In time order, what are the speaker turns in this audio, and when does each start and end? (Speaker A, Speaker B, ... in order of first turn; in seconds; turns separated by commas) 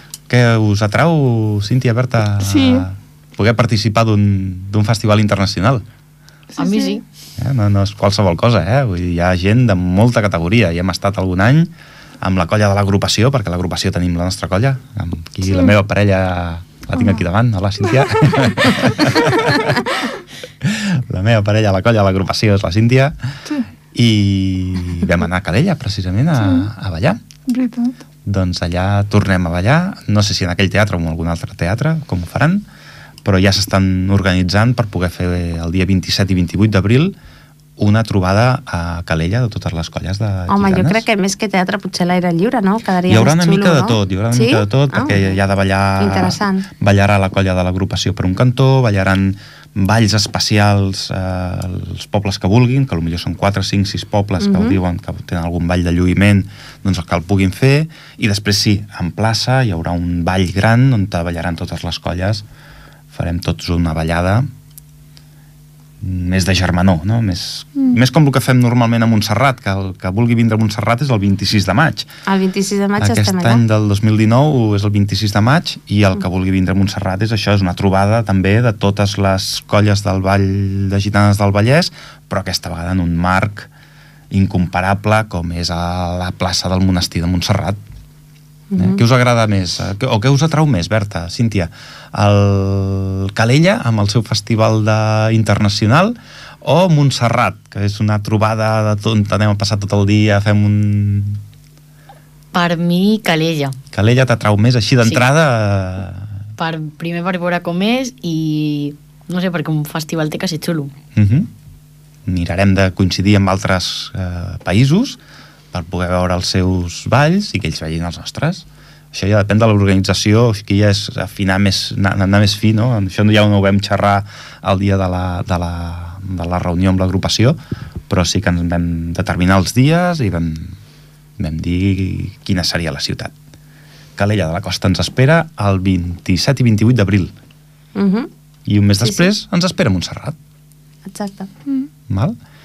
Speaker A: 0.3-5.8, Speaker B: 2.4-2.9, Speaker B: 6.5-7.0, Speaker C: 6.6-7.0, Speaker A: 7.4-19.8, Speaker B: 15.5-15.8, Speaker A: 20.6-23.1, Speaker A: 23.9-27.2, Speaker B: 26.4-26.7, Speaker B: 27.5-28.0, Speaker A: 28.2-32.6, Speaker A: 33.2-37.1, Speaker A: 37.8-41.0, Speaker D: 40.5-45.4, Speaker A: 43.1-62.4, Speaker D: 46.0-46.7, Speaker D: 54.4-54.8, Speaker A: 63.1-64.5, Speaker A: 66.0-72.1, Speaker D: 72.3-73.6, Speaker A: 73.0-83.7, Speaker A: 84.3-87.8, Speaker D: 88.7-89.0, Speaker A: 88.8-101.4, Speaker C: 102.5-103.8, Speaker A: 103.9-106.3, Speaker C: 106.6-110.9, Speaker A: 111.2-111.5, Speaker A: 112.3-115.2, Speaker A: 115.7-127.6, Speaker A: 128.1-130.8, Speaker A: 131.4-133.3, Speaker A: 134.2-137.3, Speaker D: 137.9-138.3, Speaker A: 138.7-140.4, Speaker D: 139.0-139.3, Speaker D: 141.1-141.5, Speaker A: 142.1-142.4